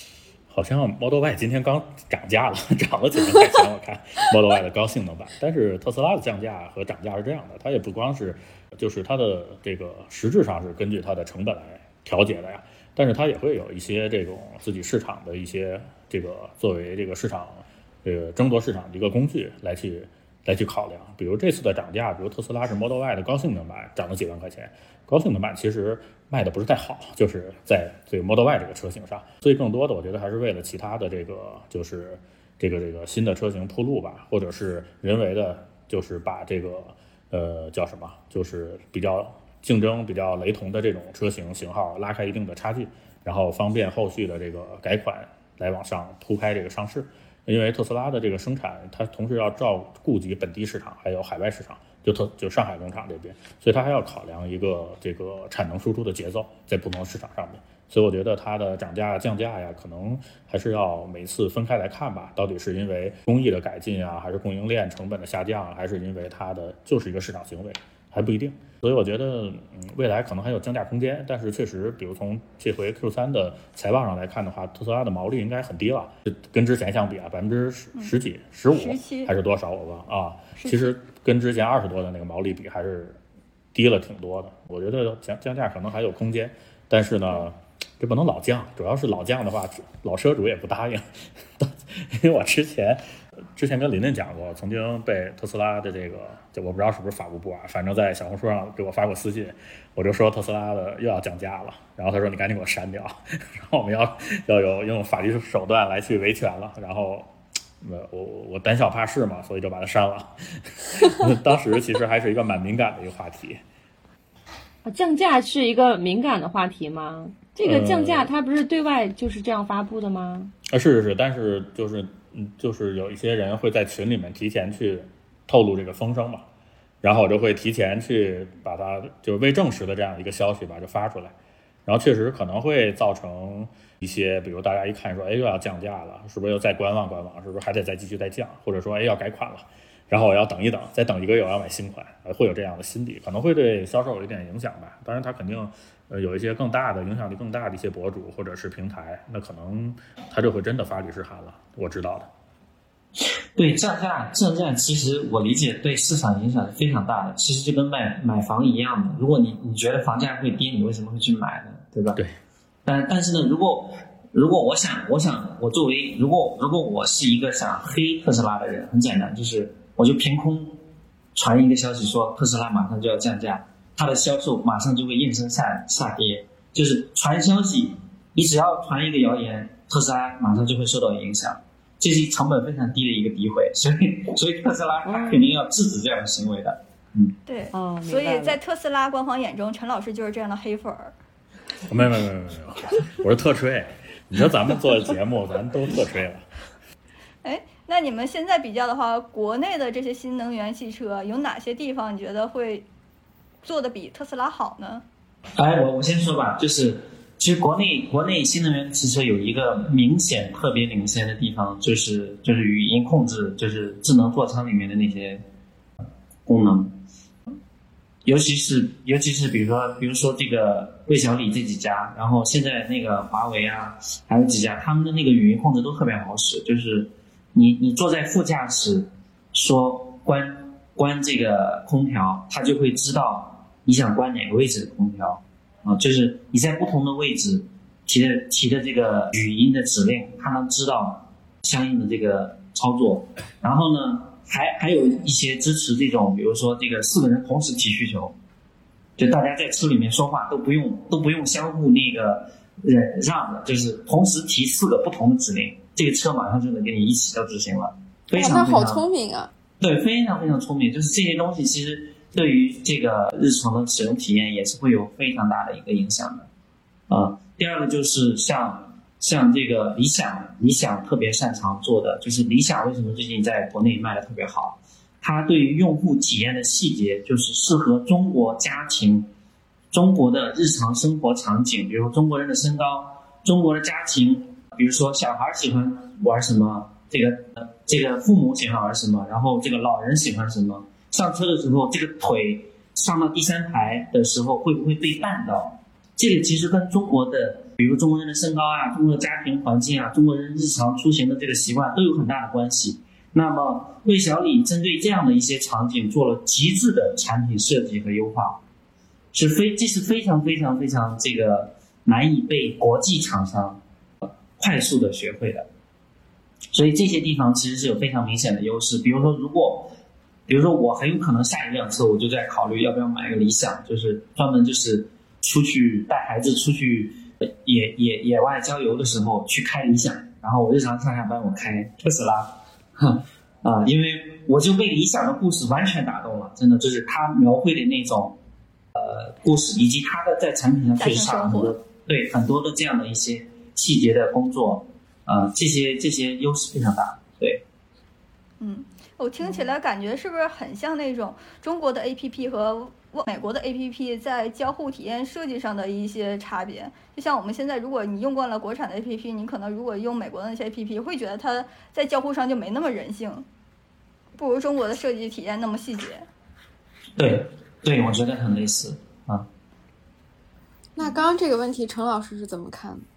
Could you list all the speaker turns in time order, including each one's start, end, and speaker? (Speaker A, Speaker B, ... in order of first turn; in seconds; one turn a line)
Speaker A: 0.5-83.2
Speaker B: 78.7-79.3
Speaker B: 80.6-80.9
Speaker A: 83.7-107.3
Speaker A: 107.8-113.6
Speaker C: 114.8-120.5
Speaker A: 117.6-118.3
Speaker A: 120.7-126.5
Speaker A: 127.0-131.3
Speaker A: 131.9-152.3
Speaker D: 153.6-162.2
Speaker D: 162.9-170.8
Speaker D: 171.3-187.3
Speaker C: 185.1-185.5
Speaker B: 187.5-191.1
Speaker C: 187.7-188.6
Speaker A: 191.8-196.5
Speaker B: 197.4-202.9
Speaker B: 203.6-205.0
Speaker D: 205.6-215.4
Speaker D: 216.5-217.0
Speaker D: 218.2-248.4
Speaker D: 249.2-259.0
Speaker E: 258.4-259.5
Speaker D: 259.8-266.5
Speaker D: 267.1-279.3
Speaker D: 279.9-308.6
Speaker D: 309.3-315.7
Speaker D: 316.7-319.9
Speaker D: 320.5-338.4
Speaker D: 338.9-347.6
Speaker B: 341.0-341.8
Speaker B: 348.6-363.5
Speaker B: 364.4-366.3
Speaker D: 367.2-369.5
Speaker E: 371.0-373.1